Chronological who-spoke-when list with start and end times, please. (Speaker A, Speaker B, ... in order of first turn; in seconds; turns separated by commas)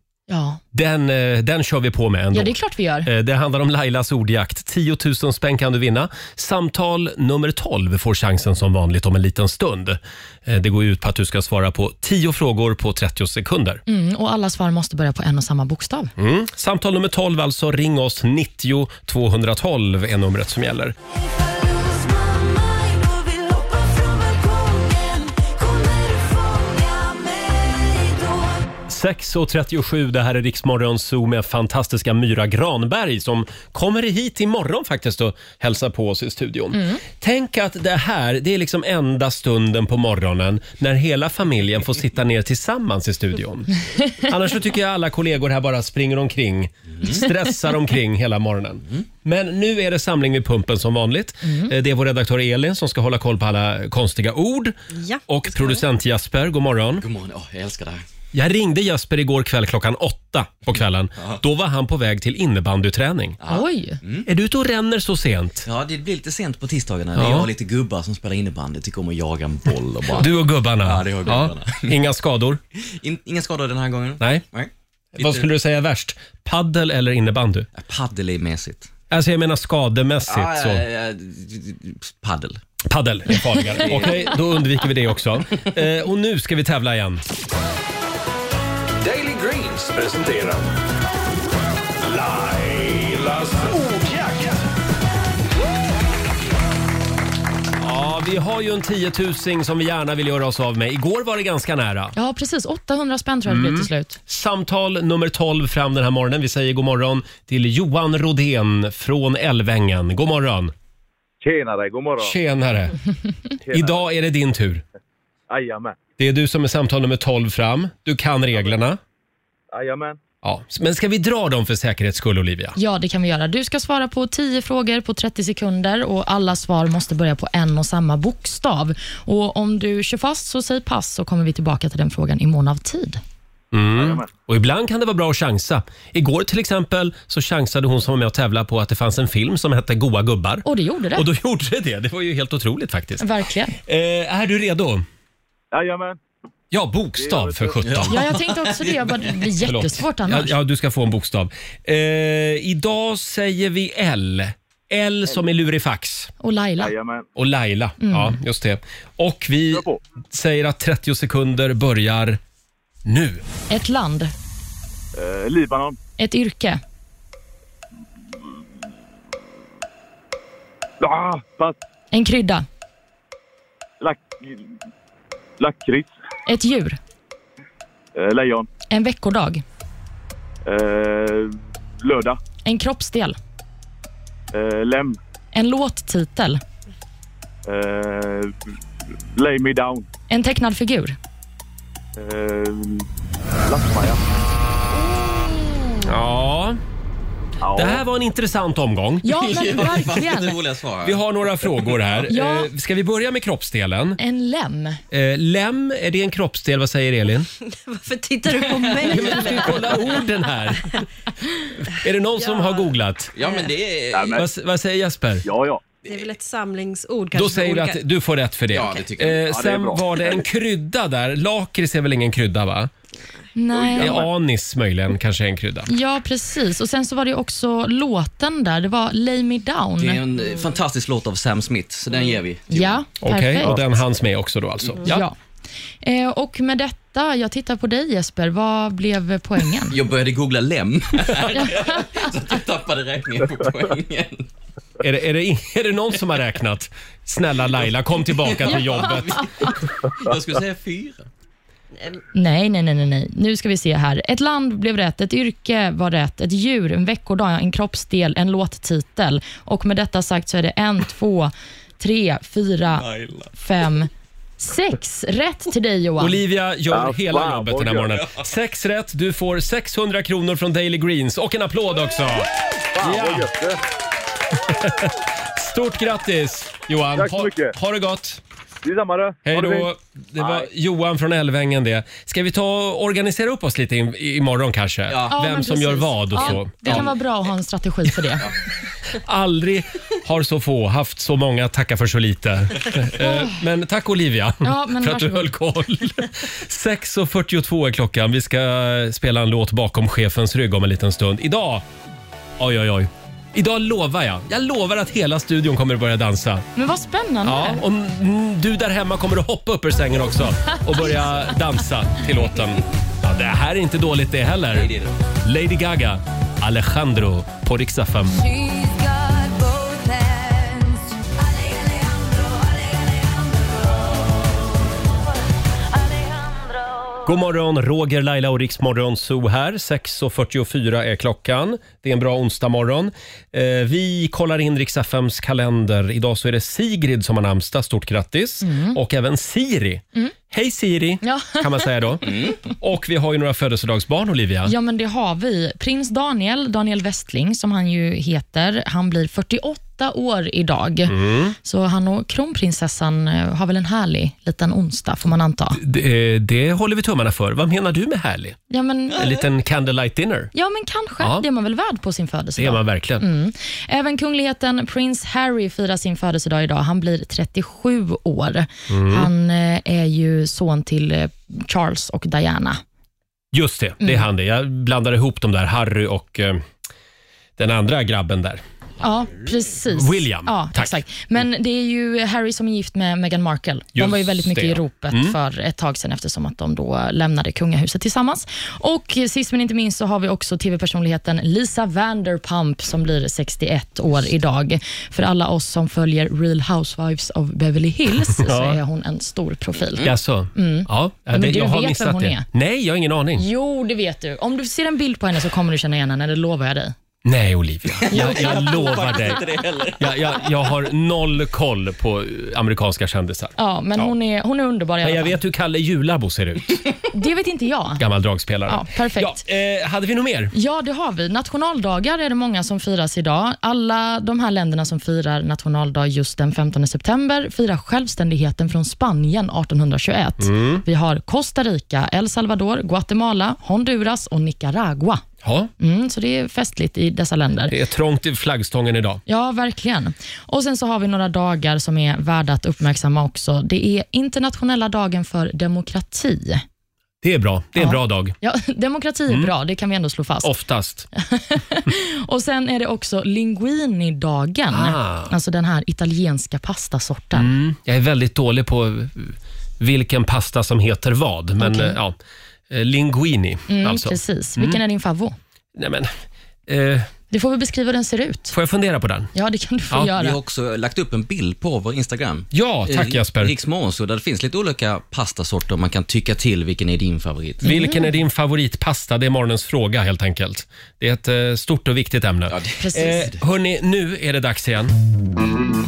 Speaker A: 0.3-0.6, Speaker B: 0.7-2.5, Speaker A: 2.3-3.1, Speaker B: 3.0-13.8, Speaker A: 13.9-16.1, Speaker B: 16.2-20.9, Speaker C: 21.1-28.7, Speaker B: 28.9-54.8, Speaker A: 51.4-51.7, Speaker D: 55.0-55.2, Speaker B: 55.3-57.0, Speaker E: 57.0-58.0, Speaker B: 58.3-63.4, Speaker E: 63.4-64.3, Speaker A: 63.5-64.0, Speaker B: 64.2-65.7, Speaker E: 65.6-71.9, Speaker B: 67.2-67.5, Speaker B: 70.1-72.6, Speaker E: 72.8-75.5, Speaker B: 75.1-77.7, Speaker E: 77.8-78.9, Speaker B: 79.1-80.8, Speaker E: 80.3-82.6, Speaker B: 82.9-87.2, Speaker E: 83.7-84.3, Speaker F: 89.0-90.7, Speaker F: 92.0-94.7, Speaker B: 97.8-102.1, Speaker A: 102.2-104.2, Speaker B: 103.5-110.7, Speaker G: 111.4-112.3, Speaker B: 112.2-113.0, Speaker G: 113.6-114.0, Speaker B: 113.7-114.8, Speaker G: 115.5-116.0, Speaker B: 116.2-119.0, Speaker G: 119.7-120.2, Speaker B: 120.4-122.8, Speaker A: 122.8-133.2, Speaker B: 133.7-143.3, Speaker G: 133.9-134.3, Speaker A: 140.6-141.3, Speaker A: 143.2-143.8, Speaker B: 143.8-145.0, Speaker G: 145.7-146.2, Speaker B: 146.7-148.2, Speaker G: 147.2-147.8, Speaker E: 147.8-149.2, Speaker A: 148.1-150.6, Speaker B: 149.6-156.3, Speaker A: 156.4-156.9, Speaker G: 156.8-157.3, Speaker B: 157.3-162.4, Speaker A: 158.0-158.3, Speaker G: 159.7-160.0, Speaker B: 163.0-163.4, Speaker A: 163.7-164.3, Speaker G: 165.1-166.0, Speaker A: 166.2-166.8, Speaker G: 171.0-171.8, Speaker A: 172.1-172.7, Speaker G: 174.0-174.7, Speaker G: 175.6-176.1, Speaker A: 176.4-177.0, Speaker G: 178.2-178.7, Speaker A: 178.9-179.6, Speaker G: 180.6-182.4, Speaker A: 182.6-183.4, Speaker G: 184.5-185.2, Speaker A: 185.5-186.6, Speaker G: 187.7-188.7, Speaker G: 189.3-190.1, Speaker A: 190.3-191.2, Speaker G: 192.2-193.1, Speaker G: 193.7-194.2, Speaker B: 196.0-196.8, Speaker G: 197.6-198.0, Speaker B: 197.7-199.4, Speaker A: 199.2-200.6, Speaker E: 199.3-202.2, Speaker B: 201.0-204.2, Speaker A: 202.3-202.7, Speaker A: 204.2-205.0, Speaker B: 205.1-207.5, Speaker D: 207.8-210.2, Speaker E: 208.8-209.2, Speaker B: 209.0-211.0, Speaker B: 211.8-213.3, Speaker D: 212.4-212.9, Speaker E: 213.3-214.4, Speaker G: 214.1-214.5, Speaker B: 214.3-215.4, Speaker G: 215.4-215.8, Speaker D: 216.0-218.0, Speaker B: 217.3-222.9, Speaker E: 218.7-219.4, Speaker G: 219.4-220.4, Speaker A: 223.6-224.2, Speaker G: 223.7-224.3, Speaker B: 223.9-225.9, Speaker A: 225.9-230.2, Speaker E: 230.0-233.0, Speaker A: 232.7-233.8, Speaker B: 233.2-235.3, Speaker A: 235.0-235.3, Speaker A: 236.0-239.9, Speaker E: 239.9-244.5, Speaker B: 245.0-249.5, Speaker E: 248.3-251.3, Speaker A: 252.3-266.4, Speaker E: 262.9-263.5, Speaker B: 266.2-273.5, Speaker G: 266.9-268.1, Speaker G: 272.9-273.8, Speaker B: 274.5-278.4, Speaker G: 277.1-277.7, Speaker G: 278.8-280.6, Speaker B: 279.4-287.1, Speaker E: 285.1-285.3, Speaker A: 285.3-288.5, Speaker E: 286.4-287.1, Speaker B: 289.1-301.9, Speaker A: 293.2-293.6, Speaker A: 294.6-295.5, Speaker B: 302.6-306.6, Speaker A: 306.8-307.8, Speaker B: 307.4-318.4, Speaker E: 314.7-315.1, Speaker C: 318.3-324.4, Speaker C: 325.9-327.3, Speaker B: 327.2-344.7, Speaker A: 338.6-339.0, Speaker A: 341.2-341.9, Speaker E: 342.2-342.6, Speaker A: 344.6-355.8, Speaker B: 351.1-351.6, Speaker B: 355.8-358.6, Speaker A: 358.7-359.2, Speaker B: 359.1-360.5, Speaker A: 360.5-372.8, Speaker B: 361.2-361.4, Speaker B: 362.6-363.3, Speaker B: 368.9-369.3, Speaker B: 373.5-376.6, Speaker B: 377.6-378.6, Speaker A: 379.0-402.4, Speaker B: 379.9-381.0, Speaker B: 383.9-385.4, Speaker B: 398.2-398.8, Speaker B: 400.0-403.4, Speaker A: 403.4-406.9, Speaker B: 407.2-414.1, Speaker E: 408.0-410.4, Speaker A: 408.1-409.4, Speaker A: 413.6-415.4, Speaker B: 415.0-416.8, Speaker A: 417.1-418.0, Speaker B: 418.0-420.5, Speaker A: 418.7-419.4, Speaker A: 420.5-435.2, Speaker B: 430.4-430.8, Speaker B: 435.4-435.7, Speaker A: 435.8-437.7, Speaker B: 437.7-439.2, Speaker A: 439.3-446.6, Speaker B: 447.2-448.4, Speaker A: 447.8-450.5, Speaker B: 450.4-451.1, Speaker A: 451.1-457.5, Speaker B: 454.7-455.3, Speaker B: 457.3-462.2, Speaker A: 461.6-462.0, Speaker B: 462.7-464.8, Speaker A: 463.7-465.4, Speaker B: 465.8-466.1, Speaker B: 466.7-467.1, Speaker A: 467.3-468.5, Speaker B: 468.5-469.3, Speaker A: 469.3-470.4, Speaker E: 470.1-477.6, Speaker B: 472.5-473.5, Speaker A: 477.6-478.1, Speaker B: 477.6-484.9, Speaker E: 482.5-483.4, Speaker A: 482.8-483.3